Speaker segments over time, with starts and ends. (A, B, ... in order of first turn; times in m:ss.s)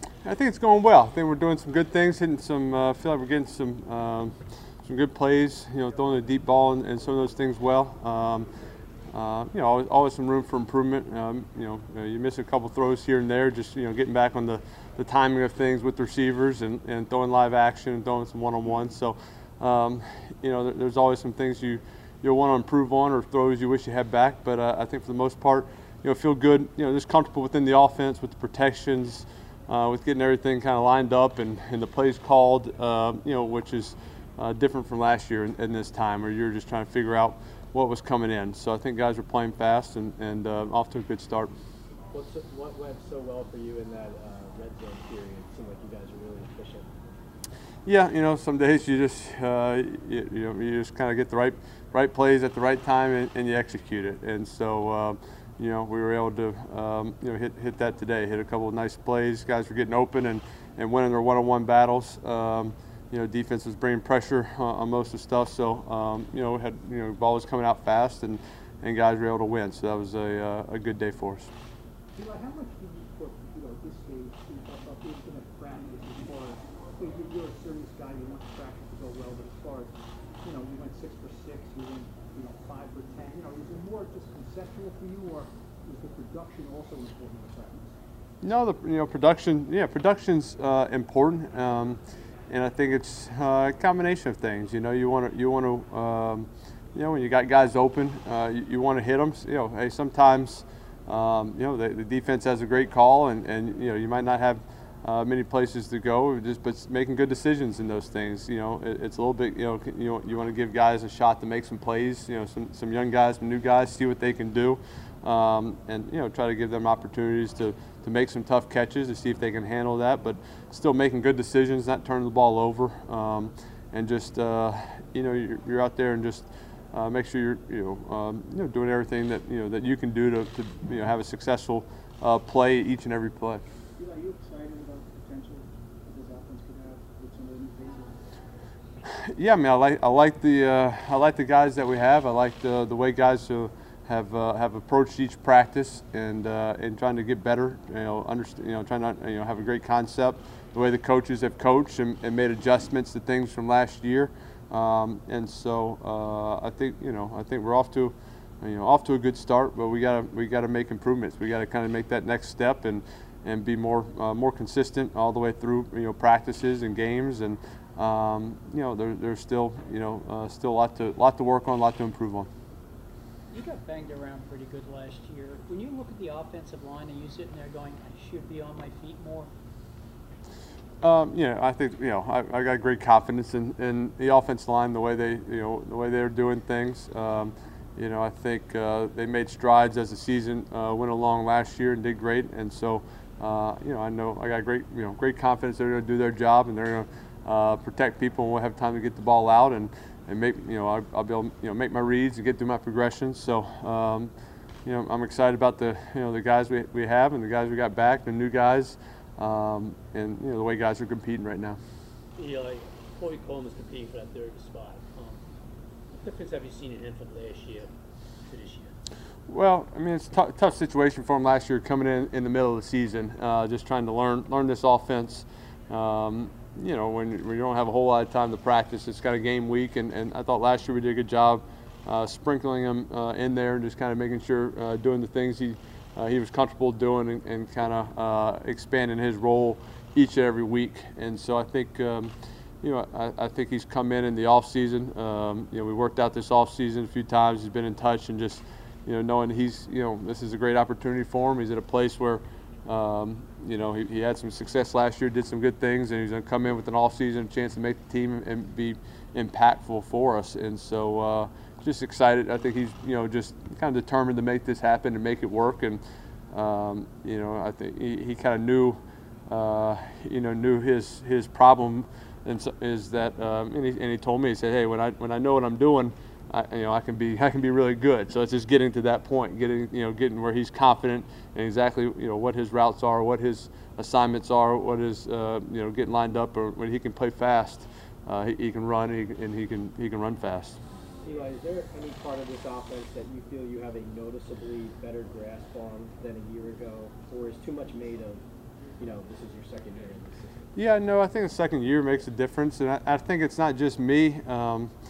0:00.2-0:08.5 A
0:09.1-0:41.5 A
0:42.1-0:46.9 B
0:47.8-1:11.5 A
1:12.1-1:28.0 C
1:28.4-2:13.6 A
2:14.0-2:18.2 C
2:19.2-2:52.5 A
2:53.5-2:59.5 D
3:01.0-3:24.3 A
3:24.8-3:31.8 A
3:32.4-3:35.4 E
3:36.1-3:37.9 E
3:38.5-3:38.9 E
3:39.5-4:50.8 A
4:51.2-4:58.4 B
4:59.0-5:00.7 B
5:00.8-5:04.9 A